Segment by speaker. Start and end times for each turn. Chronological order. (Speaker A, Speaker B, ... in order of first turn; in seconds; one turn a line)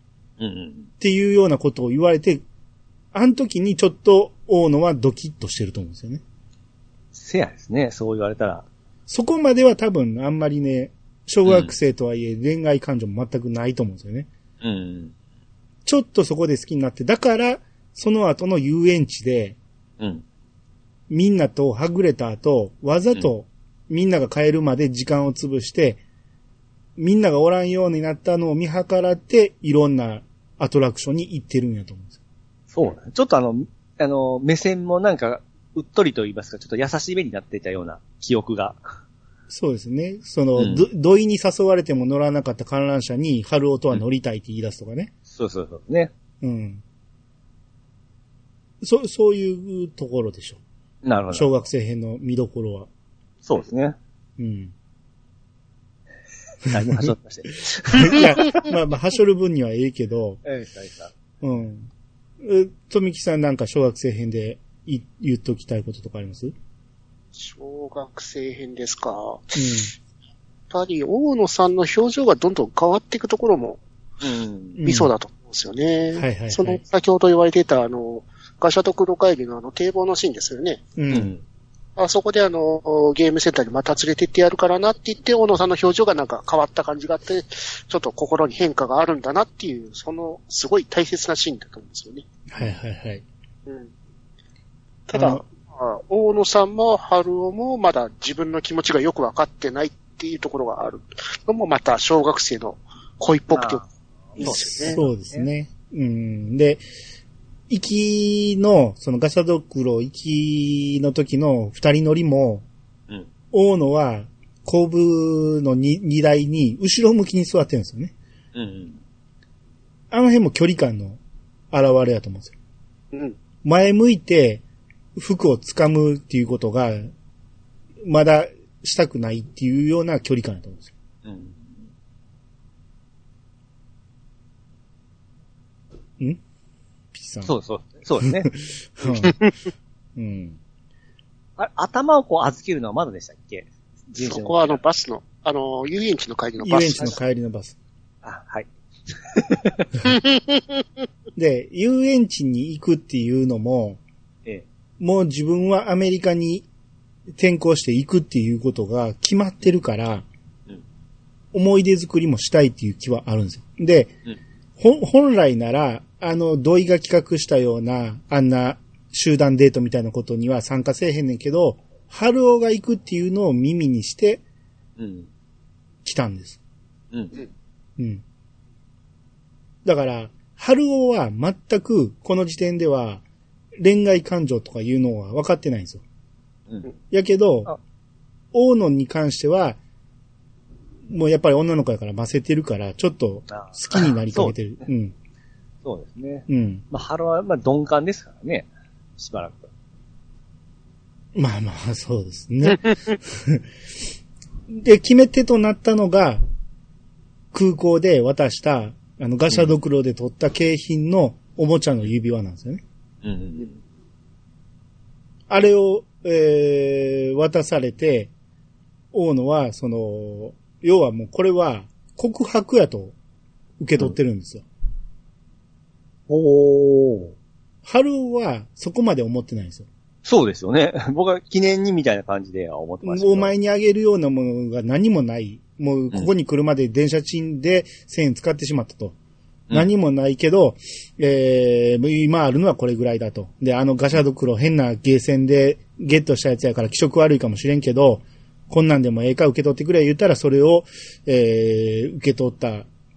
Speaker A: 0.4-0.9
Speaker B: 1.0-2.4
Speaker B: 3.1-6.2
Speaker A: 7.1-8.7
Speaker B: 9.1-14.3
Speaker A: 11.4-11.7
Speaker A: 14.6-15.1
Speaker B: 15.9-19.6
Speaker B: 21.1-26.0
Speaker B: 27.0-32.2
Speaker A: 32.7-38.8
Speaker B: 39.5-45.1
Speaker A: 40.5-40.9
Speaker A: 45.3-46.1
Speaker B: 46.4-46.8
Speaker B: 48.8-50.6
Speaker A: 51.0-51.6
Speaker B: 51.3-52.9
Speaker A: 53.4-54.0
Speaker B: 54.4-54.7
Speaker A: 56.6-58.6
Speaker B: 56.7-57.1
Speaker B: 57.9-60.4
Speaker A: 60.4-61.1
Speaker B: 61.4-66.5
Speaker C: 67.3-69.7
Speaker B: 69.5-69.9
Speaker C: 70.7-73.8
Speaker A: 74.2-74.8
Speaker B: 74.8-75.1
Speaker C: 74.8-80.8
Speaker B: 76.2-76.8
Speaker B: 81.0-81.3
Speaker A: 81.1-81.4
Speaker C: 82.0-92.2
Speaker B: 92.5-93.2
Speaker C: 95.1-103.8
Speaker B: 95.1-95.4
Speaker A: 103.5-105.5
Speaker C: 104.4-105.0
Speaker B: 104.4-106.8
Speaker B: 107.7-112.7
Speaker B: 113.5-118.1
Speaker A: 118.5-119.0
Speaker B: 120.1-121.2
Speaker B: 121.7-122.5
Speaker B: 123.6-124.6
Speaker B: 125.2-127.1
Speaker B: 128.0-130.9
Speaker A: 131.2-131.7
Speaker B: 137.1-137.5
Speaker A: 137.4-138.5
Speaker B: 138.2-139.4
Speaker B: 140.2-140.6
Speaker A: 141.6-144.8
Speaker C: 144.2-147.2
Speaker B: 146.6-147.8
Speaker A: 148.2-149.9
Speaker C: 150.3-150.6
Speaker B: 151.4-154.0
Speaker B: 155.0-156.7
Speaker B: 157.3-160.3
Speaker B: 161.5-164.1
Speaker B: 164.8-174.4
Speaker A: 175.0-175.3
Speaker B: 176.0-176.6
Speaker A: 177.1-177.4
Speaker B: 178.0-178.2
Speaker B: 179.8-183.2
Speaker B: 183.8-186.0
Speaker B: 187.1-187.7
Speaker B: 188.5-189.8
Speaker B: 191.1-195.1
Speaker A: 193.5-194.6
Speaker A: 195.8-198.7
Speaker B: 196.5-196.8
Speaker A: 199.2-199.7
Speaker B: 201.4-203.7
Speaker B: 204.7-206.4
Speaker B: 207.5-212.8
Speaker A: 213.2-213.8
Speaker B: 215.5-218.3
Speaker B: 219.1-223.2
Speaker B: 223.8-224.7
Speaker A: 226.3-227.3
Speaker B: 227.8-229.9
Speaker A: 230.2-233.5
Speaker B: 233.0-239.2
Speaker B: 239.7-252.9